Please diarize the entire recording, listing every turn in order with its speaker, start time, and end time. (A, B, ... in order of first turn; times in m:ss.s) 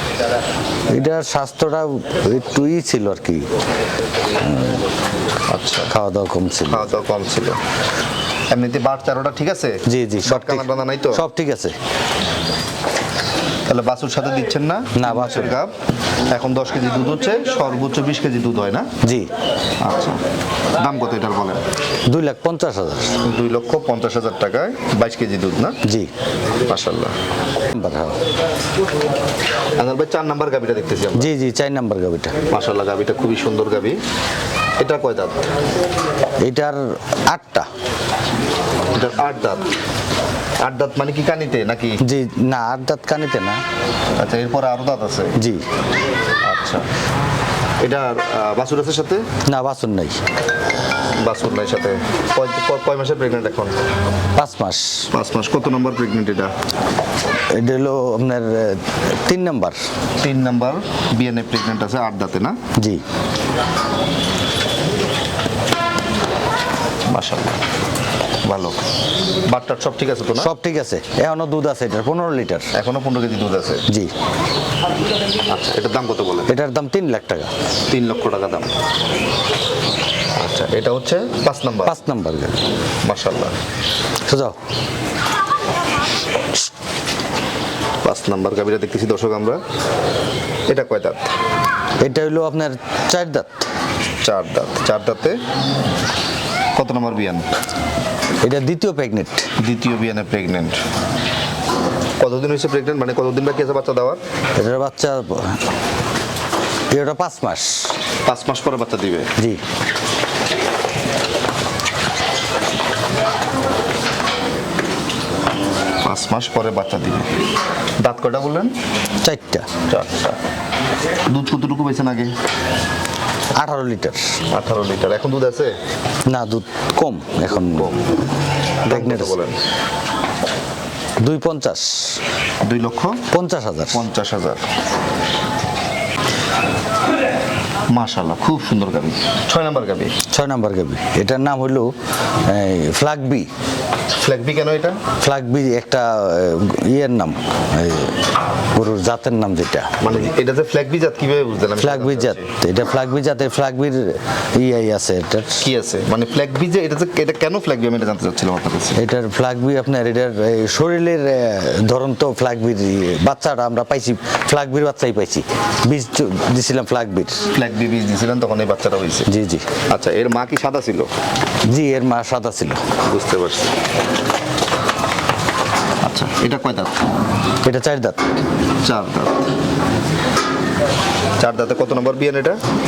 0:00.9-0:03.5 A
0:04.4-0:04.8 A
0:05.5-0:05.9 B
0:05.9-0:06.9 A
0:06.7-0:07.6 B
0:08.5-0:11.2 B
0:09.9-0:11.8 A
0:13.7-0:15.7 B
0:15.0-0:15.5 A
0:16.3-0:18.9 B
0:19.0-0:19.3 A
0:19.8-0:20.2 B
0:20.8-0:21.6 B
0:22.1-0:23.2 A
0:23.2-0:25.8 B
0:25.8-0:26.1 A
0:26.6-0:27.1 B
0:27.7-0:28.2 A
0:29.8-0:31.3 B
0:31.1-0:32.3 A
0:32.5-0:34.0 B
0:34.8-0:35.4 B
0:36.4-0:37.7 A
0:38.9-0:39.6 B
0:40.6-0:42.0 B
0:42.0-0:43.6 A
0:44.2-0:45.3 B
0:45.4-0:45.6 A
0:46.4-0:46.8 B
0:47.8-0:49.2 B
0:49.5-0:50.2 A
0:51.2-0:53.7 B
0:54.4-0:55.1 A
0:55.1-0:56.5 B
0:57.5-0:59.8 A
1:00.2-1:02.6 B
1:07.1-1:07.5 B
1:08.4-1:08.8 B
1:09.5-1:10.5 B
1:10.4-1:12.7 A
1:12.7-1:13.8 B
1:15.5-1:16.5 B
1:16.5-1:17.5 A
1:17.9-1:18.7 B
1:20.4-1:22.0 B
1:21.8-1:22.6 A
1:23.0-1:23.5 B
1:24.3-1:24.5 A
1:28.0-1:29.6 B
1:30.7-1:31.3 B
1:32.0-1:33.6 A
1:34.2-1:35.4 B
1:36.8-1:37.4 B
1:38.4-1:39.4 A
1:39.6-1:40.8 B
1:42.2-1:44.2 B
1:44.6-1:45.6 A
1:46.9-1:47.9 A
1:48.2-1:49.3 B
1:56.0-1:57.3 B
1:58.0-1:58.7 B
1:59.2-1:59.6 A
1:59.9-2:00.4 B
2:01.3-2:02.3 B
2:03.6-2:04.3 A
2:04.5-2:05.7 B
2:06.3-2:07.9 A
2:07.5-2:08.0 B
2:08.8-2:09.6 B
2:08.9-2:09.3 A
2:11.2-2:12.2 A
2:12.6-2:13.2 B
2:13.3-2:14.0 A
2:13.9-2:14.6 B
2:17.9-2:20.1 B
2:20.3-2:21.9 A
2:22.4-2:23.5 A
2:24.2-2:25.0 B
2:25.2-2:28.1 A
2:28.7-2:30.3 A
2:30.0-2:32.5 B
2:31.8-2:35.6 A
2:35.6-2:39.0 B
2:39.0-2:47.4 A
2:47.5-2:49.3 B
2:49.3-2:49.6 A
2:49.9-2:51.1 B
2:51.7-2:52.8 A
2:53.1-2:53.7 B
2:56.0-2:57.0 B
2:57.6-2:58.2 A
2:58.8-2:59.5 B
3:01.4-3:02.6 B